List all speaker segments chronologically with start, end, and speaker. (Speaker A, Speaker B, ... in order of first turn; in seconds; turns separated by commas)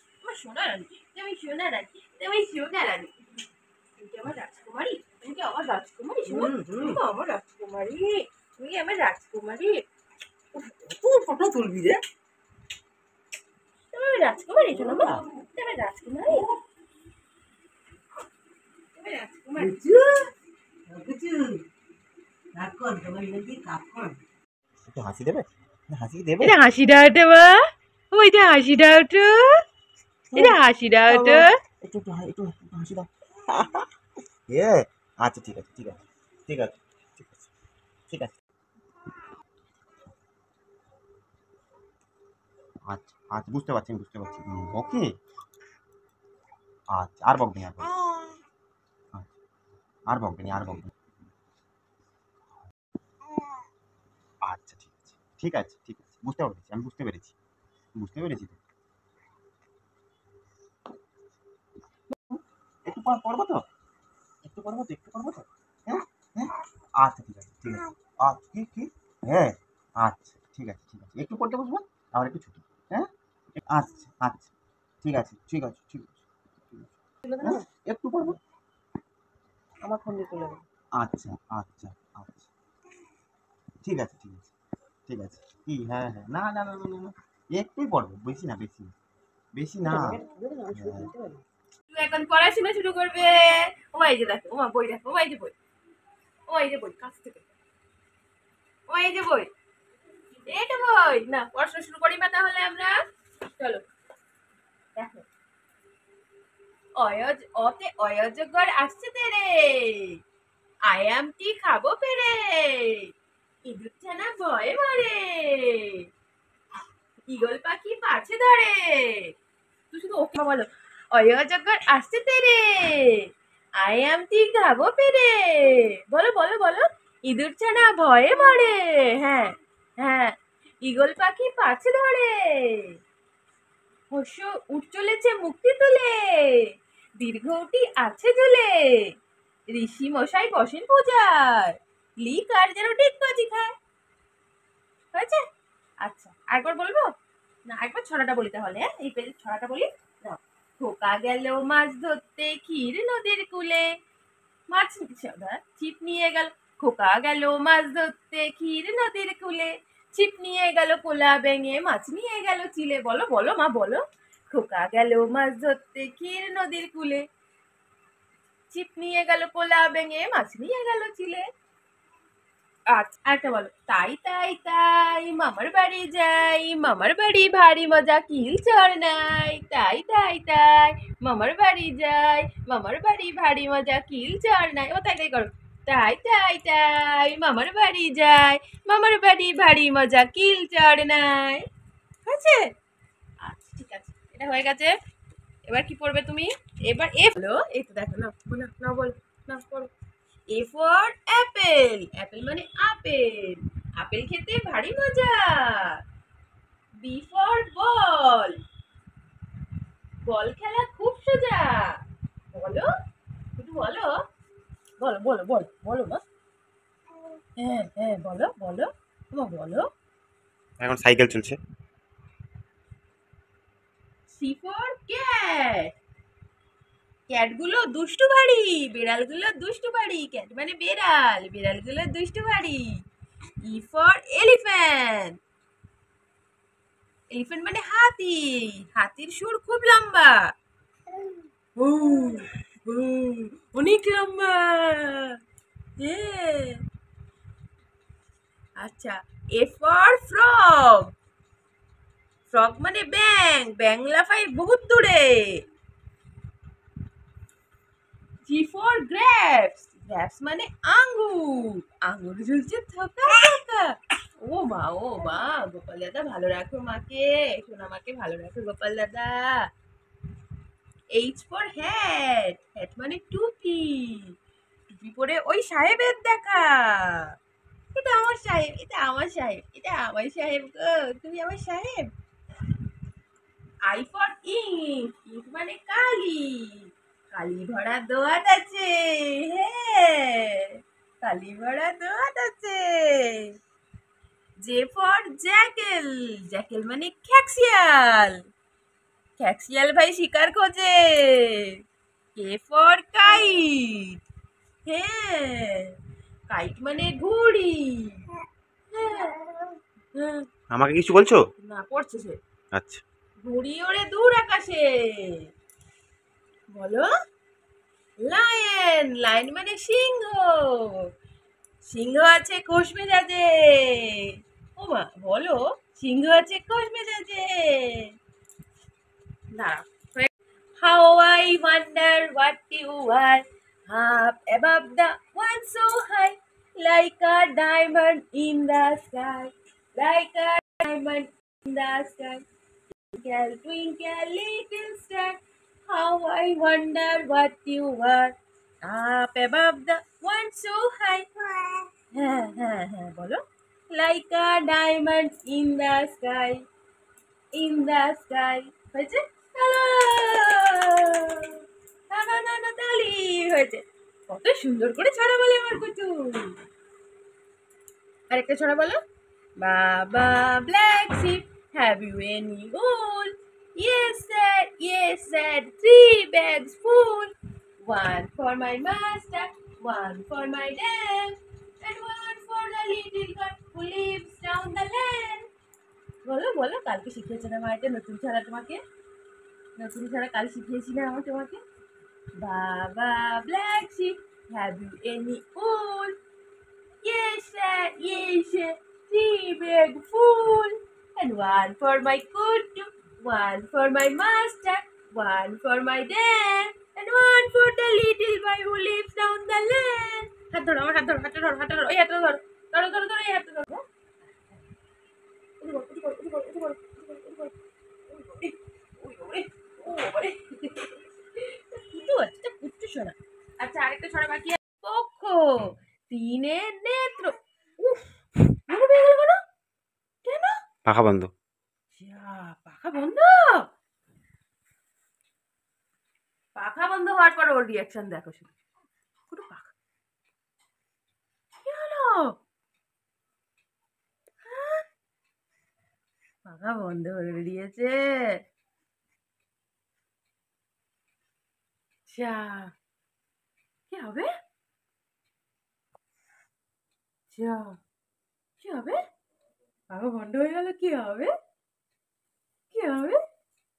Speaker A: 0.2-3.1, Speaker A: 4.0-9.8, Speaker B: 6.3-7.0, Speaker B: 10.5-12.0, Speaker A: 13.9-16.5, Speaker B: 14.7-15.2, Speaker A: 18.9-19.8, Speaker B: 19.6-20.3, Speaker B: 20.9-21.6, Speaker B: 22.5-24.2, Speaker C: 24.9-26.6, Speaker A: 26.4-29.6, Speaker C: 30.3-33.9, Speaker A: 30.3-31.5, Speaker C: 34.5-37.5, Speaker C: 42.9-45.1, Speaker C: 46.9-47.9, Speaker C: 50.1-50.9, Speaker C: 54.5-57.3, Speaker C: 58.0-58.6, Speaker C: 62.3-63.6, Speaker C: 64.4-74.5, Speaker C: 75.0-78.4, Speaker B: 79.9-80.5, Speaker A: 79.9-80.4, Speaker C: 81.0-82.5, Speaker C: 83.8-84.5, Speaker C: 85.1-88.9, Speaker C: 89.5-91.1, Speaker B: 89.8-91.4, Speaker A: 91.9-95.5, Speaker A: 96.5-97.5, Speaker A: 98.9-99.5, Speaker A: 100.5-103.8, Speaker A: 105.0-105.3, Speaker A: 107.0-110.2, Speaker A: 110.9-113.1, Speaker A: 113.6-116.1, Speaker A: 117.3-119.3, Speaker A: 119.9-123.3, Speaker A: 123.8-132.9, Speaker A: 134.1-139.1, Speaker A: 139.7-143.8, Speaker A: 145.1-145.4, Speaker A: 146.0-147.1, Speaker A: 147.7-153.9, Speaker A: 154.7-167.2, Speaker A: 168.7-171.4, Speaker A: 172.9-191.7, Speaker A: 192.2-192.7, Speaker A: 193.4-194.9, Speaker A: 195.7-199.9, Speaker A: 200.5-206.0, Speaker A: 207.0-208.6, Speaker A: 210.2-212.0, Speaker A: 212.5-212.9, Speaker A: 213.5-214.2, Speaker A: 215.0-216.2, Speaker A: 217.6-219.9, Speaker C: 220.8-221.6, Speaker A: 224.3-225.9, Speaker A: 227.3-233.0, Speaker A: 233.6-235.3, Speaker A: 237.3-240.5, Speaker A: 241.8-245.4, Speaker A: 246.0-246.8, Speaker A: 248.8-251.1, Speaker A: 252.5-255.6, Speaker A: 258.4-269.6, Speaker A: 271.1-274.4, Speaker A: 274.9-277.3, Speaker A: 277.9-282.1, Speaker A: 283.8-293.6, Speaker A: 294.6-298.4, Speaker A: 299.4-301.8, Speaker A: 302.4-304.2, Speaker A: 304.9-305.9, Speaker A: 306.5-308.2, Speaker A: 308.9-309.5, Speaker A: 310.1-310.5, Speaker C: 310.7-311.4, Speaker A: 311.6-312.4, Speaker C: 312.7-313.0, Speaker A: 313.4-315.5, Speaker A: 316.7-317.1, Speaker A: 318.2-321.1, Speaker A: 321.8-328.1, Speaker A: 329.5-342.4, Speaker A: 343.1-353.4, Speaker A: 353.9-356.6, Speaker A: 357.5-361.6, Speaker A: 362.1-366.6, Speaker A: 368.3-369.0, Speaker A: 369.6-377.3, Speaker A: 377.8-385.5, Speaker A: 386.2-388.8, Speaker A: 389.8-391.6, Speaker A: 392.4-396.2, Speaker A: 397.0-413.8, Speaker A: 415.6-417.6, Speaker A: 418.1-428.1, Speaker A: 428.7-429.4, Speaker A: 430.2-430.6, Speaker C: 430.9-431.3, Speaker A: 431.9-433.7, Speaker A: 436.6-438.5, Speaker A: 439.3-439.7, Speaker A: 441.6-442.4, Speaker A: 444.4-444.8, Speaker A: 446.4-448.4, Speaker A: 452.1-452.7, Speaker A: 453.9-454.3, Speaker A: 457.3-457.8, Speaker A: 458.6-459.0, Speaker A: 459.9-461.3, Speaker A: 462.7-463.2